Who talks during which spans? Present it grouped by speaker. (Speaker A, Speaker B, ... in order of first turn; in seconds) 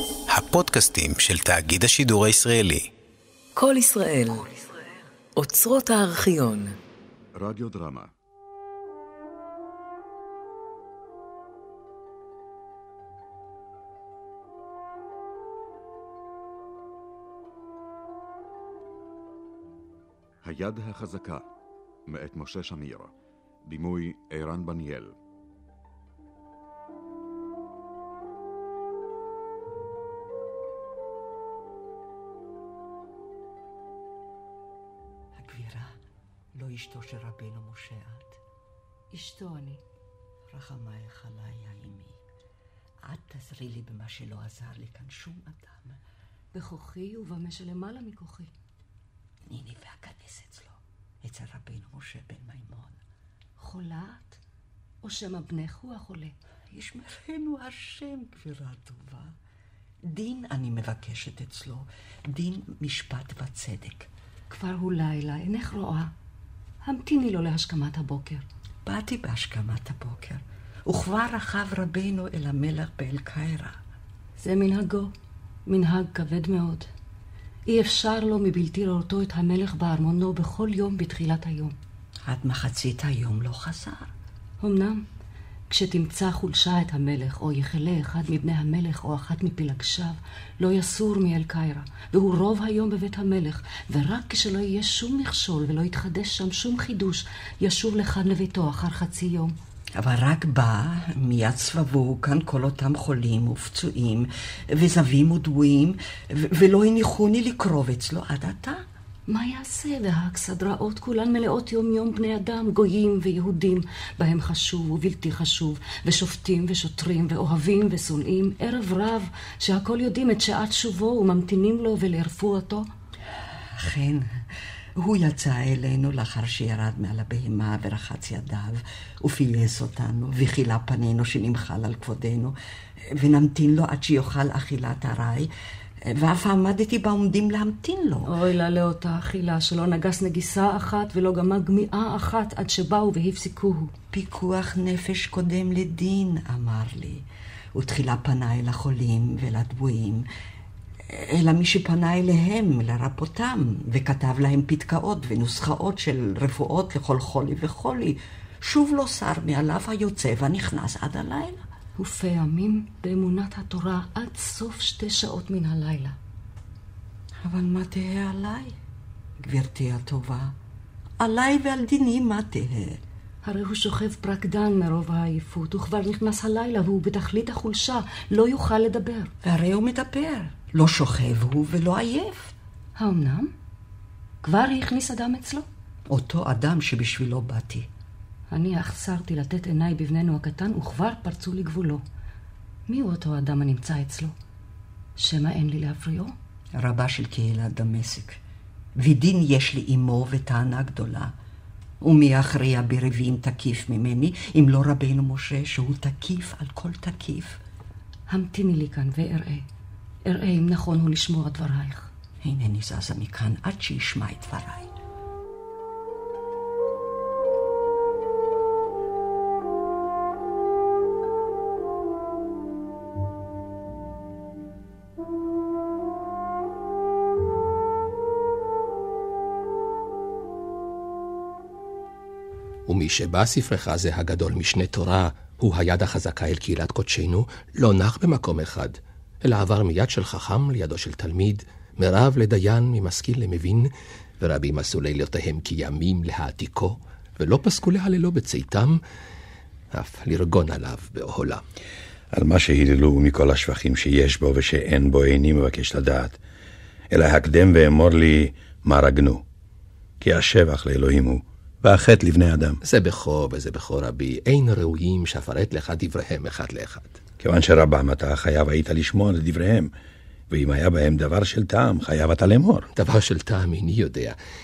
Speaker A: 0.3-2.9
Speaker B: 3.5-4.7, 5.3-6.8
Speaker C: 7.3-8.1, 20.4-21.5, 22.1-23.1, 23.6-25.2
Speaker D: 35.3-35.9, 36.5-38.4, 40.5-42.2, 43.0-46.0, 49.5-53.0, 56.7-59.3, 60.0-64.1, 68.8-73.8, 82.2-84.1, 100.0-108.8, 123.7-124.4, 125.0-132.5, 133.1-135.5, 136.0-138.3, 144.1-147.2, 147.7-150.2, 151.1-161.6, 167.4-168.8, 169.4-170.6, 171.2-173.0, 179.4-182.5, 186.1-187.9, 196.8-198.4, 199.0-201.3, 202.0-207.6, 212.4-214.9
Speaker E: 39.1-39.8, 46.5-48.5, 53.6-54.4, 55.0-56.3, 64.5-66.1, 66.8-68.4, 74.4-75.1, 75.7-76.9, 77.7-81.7, 84.6-85.0, 85.7-99.5, 109.3-122.8, 138.2-143.9, 162.0-166.2, 173.4-179.3, 182.9-183.5, 184.4-185.7, 188.5-192.0, 192.9-194.3, 195.2-196.3, 208.3-209.6, 210.2-212.1
Speaker F: 232.8-249.0, 249.9-251.6, 262.8-267.2, 272.9-274.4
Speaker G: 252.3-256.4, 257.1-259.4, 260.2-262.8, 267.4-269.9, 270.5-272.9